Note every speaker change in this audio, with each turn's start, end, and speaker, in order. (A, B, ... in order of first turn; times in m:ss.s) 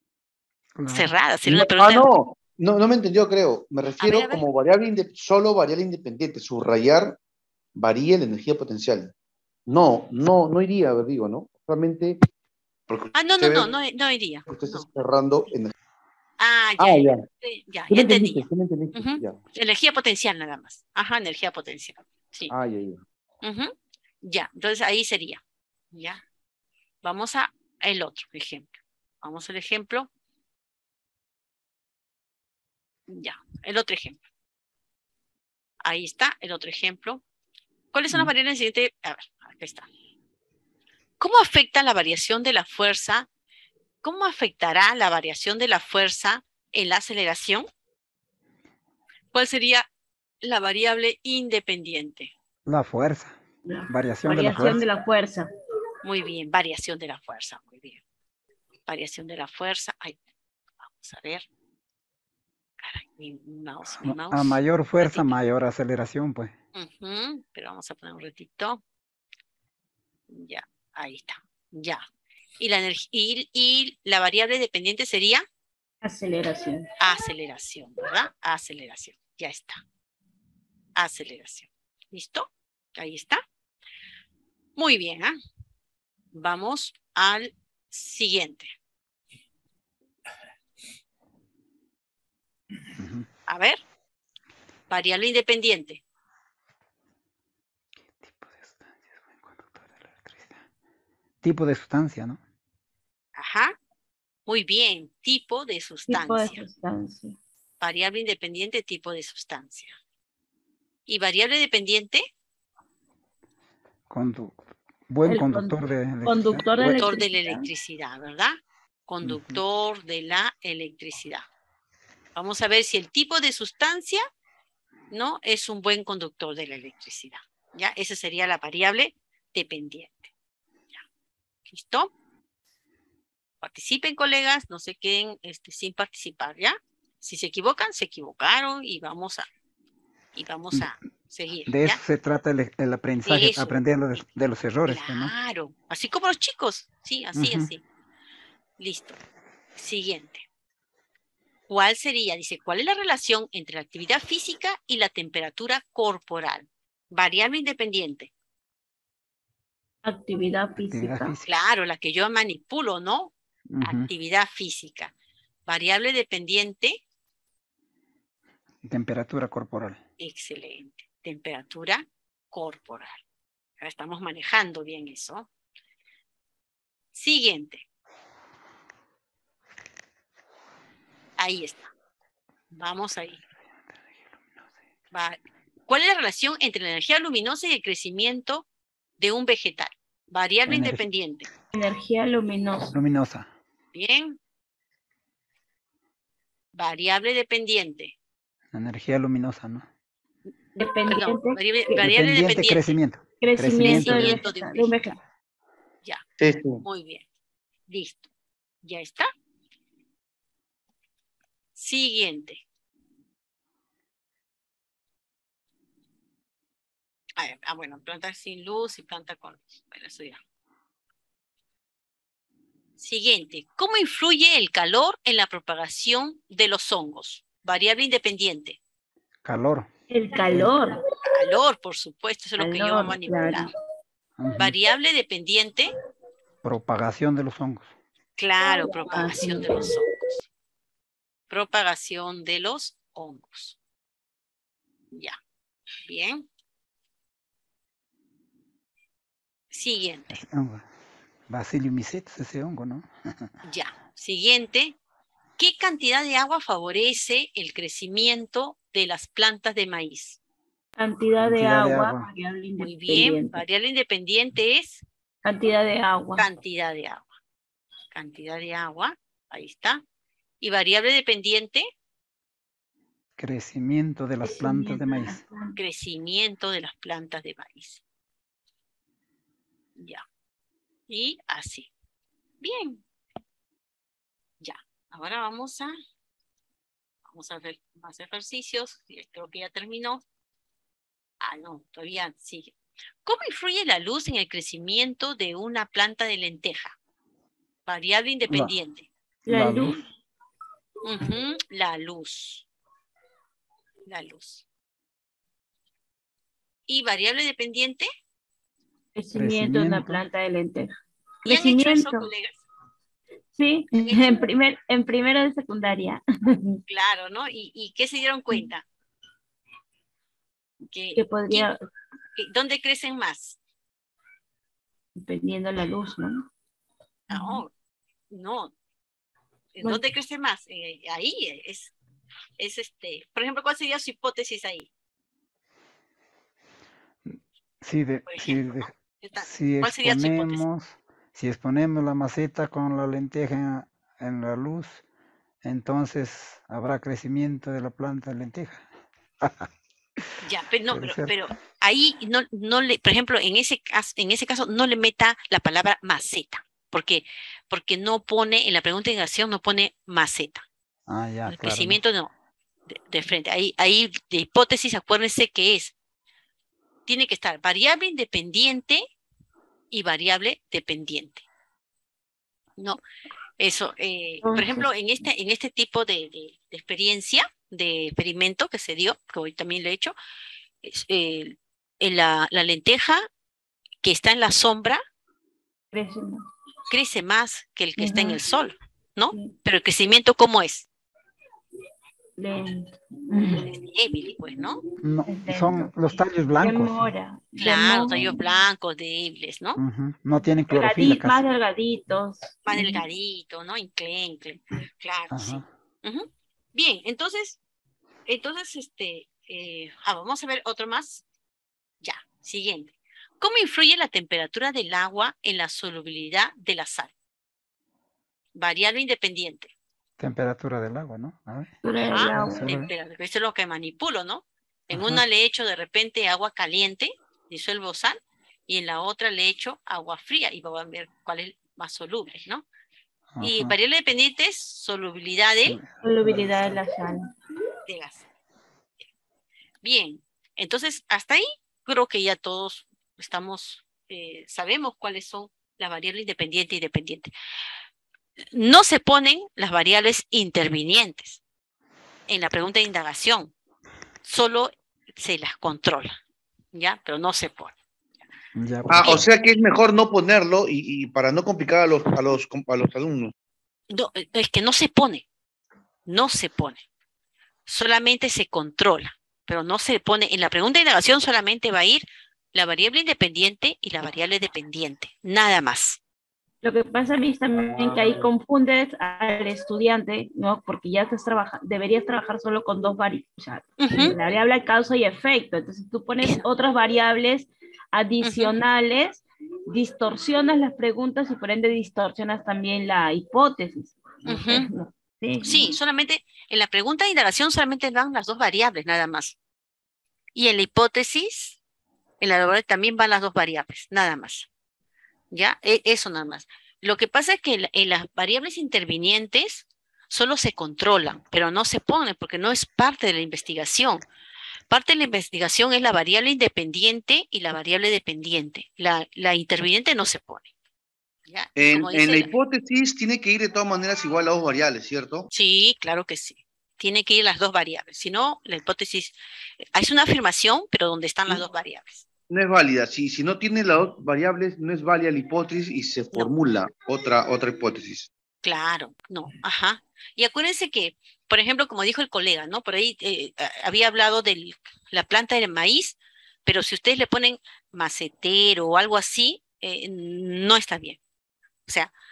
0:00.8-0:01.1 A
0:00.9-0:02.1 B
0:01.5-0:07.2 C
0:04.0-0:04.4 B
0:07.8-0:09.1 C
0:09.7-0:12.2 C
0:12.9-0:13.7 C
0:13.2-0:14.9 B
0:14.5-0:15.7 C
0:16.4-0:22.5 B
0:16.8-0:17.3 C
0:17.9-0:19.4 C
0:22.5-0:23.0 C
0:23.4-0:26.2 B
0:27.0-0:30.1 B
0:33.1-0:34.2 B
0:35.8-0:37.2 B
0:37.9-0:39.9 B
0:41.2-0:43.3 B
0:44.0-0:47.7 B
0:49.3-0:49.9 B
0:50.4-0:52.3 B
0:52.7-0:53.4 A
0:53.7-0:55.5 D
0:53.9-0:54.8 A
0:56.0-0:58.0 B
0:58.9-1:00.2 B
1:00.8-1:01.5 B
1:02.8-1:05.3 B
1:04.0-1:06.5 A
1:06.8-1:08.8 B
1:10.3-1:12.0 B
1:12.6-1:15.4 B
1:16.0-1:16.9 D
1:17.0-1:19.8 B
1:21.0-1:23.4 B
1:24.8-1:25.4 B
1:26.3-1:28.7 B
1:33.0-1:33.3 A
1:33.5-1:33.8 B
1:34.9-1:36.0 B
1:38.2-1:40.6 A
1:41.4-1:42.4 A
1:43.4-1:43.8 B
1:44.5-1:46.6 B
1:46.1-1:47.4 D
1:47.8-1:50.0 B
1:51.1-1:52.3 B
1:54.1-1:57.1 A
1:55.3-1:57.7 D
1:57.0-2:01.5 B
1:59.2-1:59.6 A
2:02.4-2:04.2 B
2:05.1-2:10.3 B
2:11.7-2:12.1 B
2:13.6-2:19.5 B
2:20.3-2:22.0 B
2:21.7-2:25.3 A
2:23.3-2:23.8 B
2:24.9-2:27.8 B
2:27.4-2:27.7 A
2:28.8-2:29.2 B
2:29.8-2:30.4 B
2:31.7-2:38.3 B
2:40.0-2:41.4 D
2:40.8-2:41.5 A
2:41.4-2:45.1 B
2:43.7-2:44.1 A
2:45.7-2:47.0 B
2:48.8-2:50.0 A
2:50.2-2:53.2 B
2:53.8-2:55.5 B
2:57.1-2:57.8 B
3:01.4-3:01.9 B
3:02.7-3:03.4 B
3:03.9-3:04.5 A
3:05.1-3:08.6 B
3:09.2-3:11.5 B
3:10.7-3:11.0 A
3:11.7-3:13.0 D
3:12.9-3:13.5 A
3:13.9-3:14.4 B
3:16.7-3:18.1 B
3:18.7-3:19.9 A
3:20.8-3:22.0 D
3:21.1-3:22.9 B
3:22.0-3:24.4 A
3:23.4-3:25.2 D
3:23.7-3:25.1 B
3:26.4-3:26.8 C
3:26.8-3:27.2 B
3:27.9-3:28.3 B
3:28.8-3:29.3 B
3:31.8-3:32.6 B
3:37.4-3:40.4 B
3:43.0-3:48.8 B
3:49.4-3:49.9 A
3:50.1-3:51.0 D
3:50.5-3:50.8 A
3:51.3-3:53.7 B
3:52.6-3:53.7 D
3:54.4-3:54.7 A
3:54.6-3:55.9 B
3:56.6-3:57.9 A
3:58.4-4:00.4 B
3:58.6-4:00.0 D
4:01.5-4:03.8 B
4:05.1-4:05.4 B
4:06.0-4:06.5 B
4:09.7-4:10.4 B
4:10.4-4:10.9 A
4:11.5-4:13.5 A
4:13.6-4:15.0 B
4:15.6-4:20.4 B
4:21.0-4:23.6 D
4:21.4-4:22.3 A
4:22.8-4:25.0 B
4:25.4-4:26.5 D
4:26.4-4:27.3 B
4:28.1-4:30.0 B
4:30.6-4:31.9 B
4:33.4-4:35.4 A
4:34.4-4:35.7 D
4:35.8-4:38.0 B
4:40.0-4:40.2 B
4:41.1-4:41.9 B
4:42.6-4:43.0 B
4:44.6-4:45.9 B
4:47.3-4:50.2 B
4:51.4-4:52.7 B
4:53.2-4:57.0 B
4:57.9-4:59.1 B
4:58.5-4:58.8 A
4:59.5-5:00.0 A
4:59.5-5:00.0 D
5:01.0-5:02.6 B
5:04.1-5:04.6 B
5:06.9-5:08.1 B
5:09.2-5:12.3 D
5:09.3-5:10.2 A
5:11.5-5:12.6 B
5:13.5-5:16.8 D
5:14.0-5:14.4 B
5:16.9-5:18.9 B
5:20.9-5:21.7 B
5:21.2-5:21.8 D
5:22.4-5:23.6 B
5:25.2-5:26.5 D
5:27.3-5:27.6 D
5:27.3-5:27.7 B
5:28.3-5:28.7 B
5:29.8-5:31.9 B
5:32.6-5:34.9 B
5:37.3-5:45.0 A
5:38.3-5:40.6 B
5:45.6-5:48.9 A
5:49.4-5:49.7 A
5:50.4-6:00.6 B
5:50.9-5:51.4 A
6:01.1-6:02.0 A
6:01.5-6:02.3 B
6:02.9-6:05.9 B
6:07.1-6:09.1 B
6:09.9-6:11.4 B
6:13.6-6:20.2 B
6:14.4-6:14.9 D
6:20.8-6:23.3 B
6:24.0-6:25.0 B
6:25.9-6:26.5 D
6:26.9-6:30.9 B
6:28.0-6:28.4 D
6:32.4-6:33.9 D
6:33.5-6:34.8 B
6:35.0-6:37.1 A
6:35.3-6:38.5 D
6:37.6-6:39.8 B
6:39.8-6:41.4 A
6:40.6-6:43.0 D
6:42.6-6:47.6 B
6:45.3-6:45.7 A
6:48.3-6:51.2 B
6:52.0-6:57.1 B
6:58.6-6:59.7 B
7:00.2-7:02.9 A
7:01.8-7:02.8 D
7:02.0-7:12.6 B
7:04.9-7:05.2 A
7:13.3-7:13.8 A
7:13.4-7:15.8 B
7:15.6-7:16.8 A
7:16.0-7:17.3 D
7:17.9-7:18.3 B
7:19.8-7:27.3 B
7:28.5-7:31.4 B
7:32.3-7:33.5 B
7:34.2-7:36.2 B
7:36.7-7:37.8 B
7:38.6-7:39.2 A
7:38.9-7:43.3 C
7:43.9-7:45.2 B
7:46.1-7:46.8 B
7:47.7-7:56.0 B
7:56.6-8:15.8 D
8:03.8-8:04.2 B
8:06.2-8:06.4 B
8:08.2-8:08.6 B
8:14.3-8:14.7 B
8:15.4-8:19.4 B
8:20.4-8:21.6 B
8:22.2-8:24.5 B
8:25.3-8:34.0 B
8:34.7-8:40.5 B
8:41.3-8:42.4 B
8:41.6-8:45.3 C
8:45.3-8:49.2 B
8:49.7-8:52.0 B
8:52.3-8:58.1 C
8:58.4-9:11.0 B
9:11.7-9:11.9 B